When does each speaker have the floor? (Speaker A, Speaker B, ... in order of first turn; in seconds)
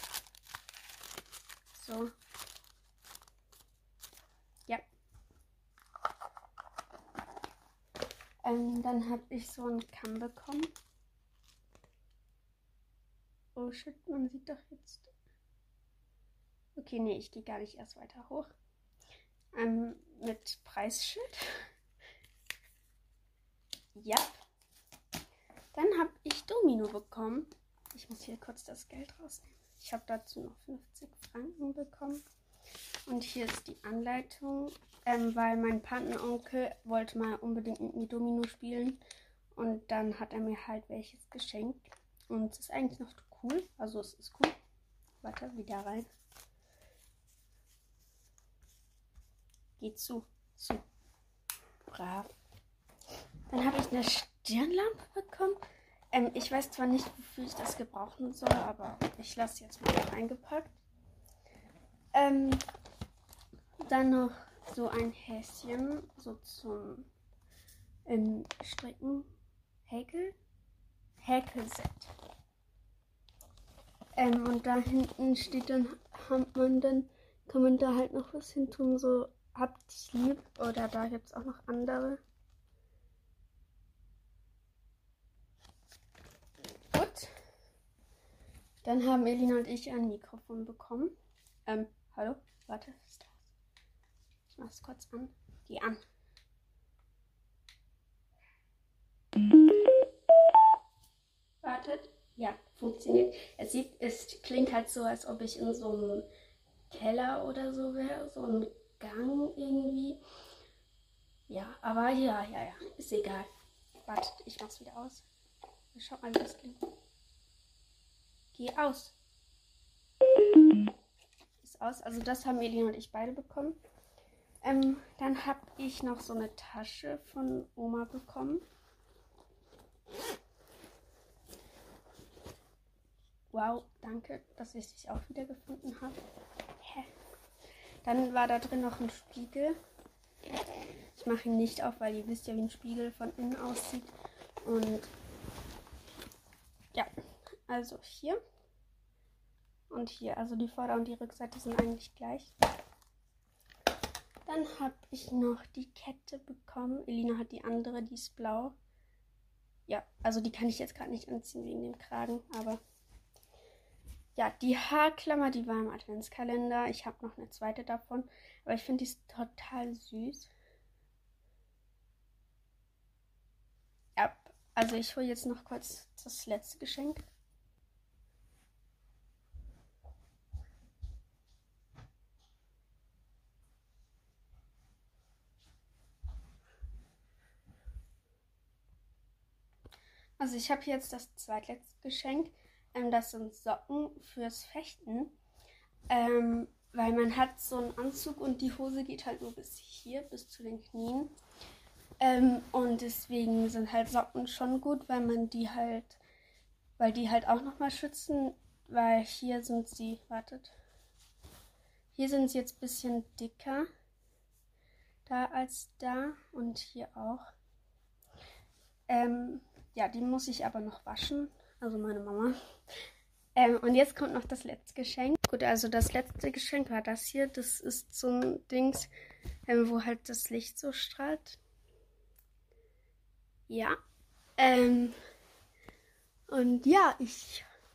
Speaker A: 1.7-2.1, 8.4-10.7, 13.6-15.1, 16.8-18.5, 19.5-21.6, 23.9-24.4, 25.7-32.2, 33.1-39.0, 39.5-44.5, 45.2-46.1, 49.8-50.8, 51.9-52.3, 53.5-55.6, 56.1-60.8, 62.1-62.6, 63.9-67.1, 68.1-69.3, 69.9-70.3, 71.2-72.1, 74.2-82.2, 86.9-87.3, 88.8-91.2, 91.7-93.5, 94.5-96.0, 101.6-106.3, 106.9-110.2, 111.5-113.5, 114.1-115.2, 115.9-116.8, 118.5-119.2, 121.6-123.8, 124.6-128.7, 133.5-136.2, 136.8-137.1, 138.0-139.8, 141.1-145.1, 147.7-148.4, 149.9-152.5, 154.5-158.8, 159.9-162.8, 164.4-170.5, 174.2-177.2, 190.4-195.3, 196.1-201.3, 202.2-206.2, 207.0-210.8, 212.1-213.9, 215.3-217.4, 219.1-222.6, 223.6-229.1, 229.7-231.6, 233.7-234.0, 234.6-235.2, 236.5-237.7